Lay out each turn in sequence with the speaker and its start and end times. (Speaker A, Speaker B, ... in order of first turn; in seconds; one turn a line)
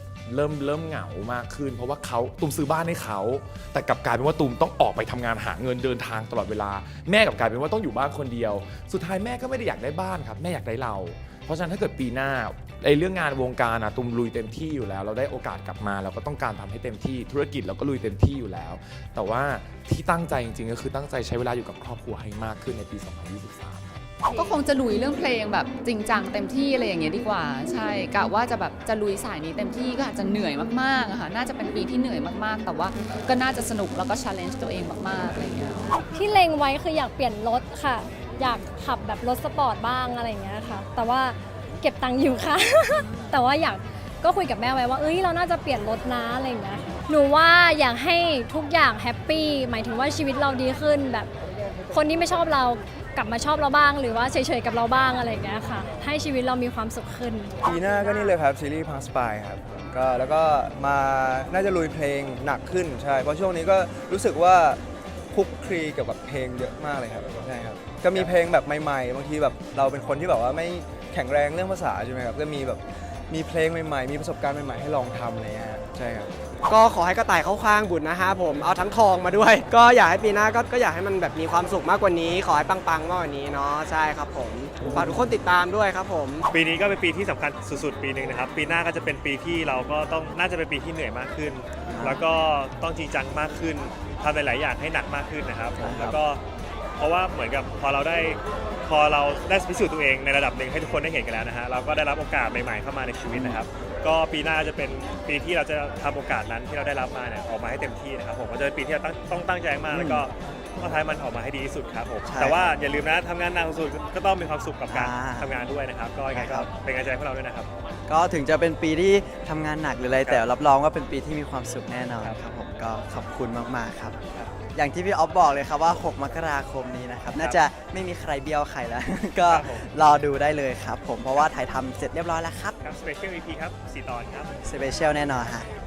Speaker A: 0.3-24.1
Speaker B: 24.4-36.0
Speaker C: 36.1-51.3
Speaker C: 51.9-57.5
Speaker D: 57.6-64.8
Speaker D: 65.3-76.3
Speaker E: 76.7-86.5
Speaker F: 86.5-96.4
Speaker G: 91.9-92.2
Speaker G: 95.8-96.2
Speaker F: 97.0-117.7
Speaker G: 103.3-103.6
Speaker G: 109.9-110.3
Speaker G: 112.3-112.8
Speaker G: 114.9-115.5
Speaker G: 116.3-116.7
Speaker G: 118.1-124.2
Speaker G: 124.7-132.8
Speaker F: 129.5-129.8
Speaker F: 132.8-134.5
Speaker G: 134.7-135.7